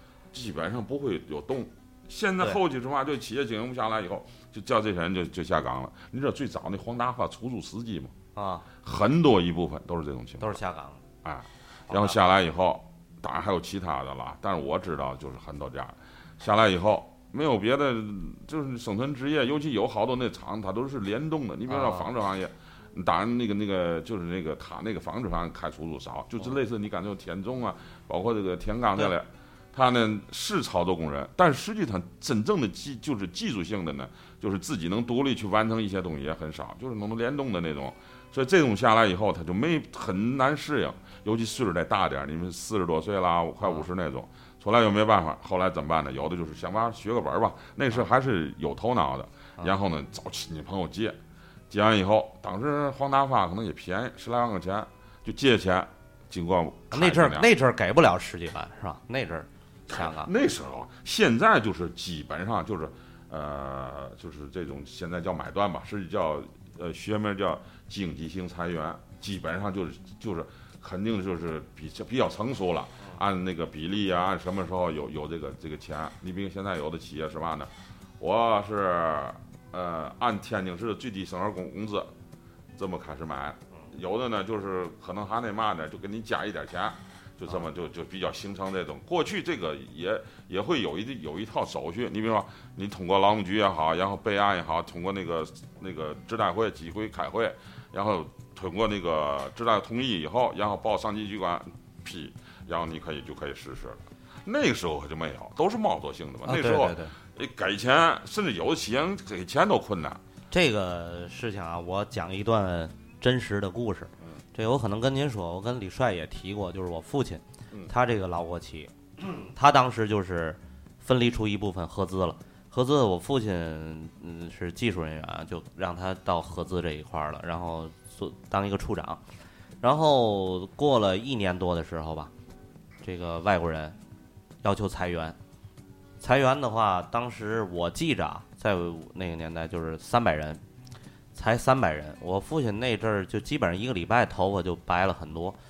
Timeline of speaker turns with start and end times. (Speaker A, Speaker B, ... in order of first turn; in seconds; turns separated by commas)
Speaker A: 0.3-8.1, Speaker B: 8.3-8.7, Speaker A: 8.8-10.6, Speaker B: 10.4-11.0, Speaker A: 11.2-51.2, Speaker B: 11.9-12.2, Speaker B: 21.7-22.1, Speaker A: 51.7-57.5, Speaker B: 56.9-60.3, Speaker A: 59.9-82.1, Speaker A: 82.7-110.2, Speaker B: 106.4-107.1, Speaker B: 110.5-129.2, Speaker B: 129.8-132.3, Speaker B: 133.0-133.9, Speaker B: 134.6-135.3, Speaker B: 136.2-140.6, Speaker B: 141.3-145.6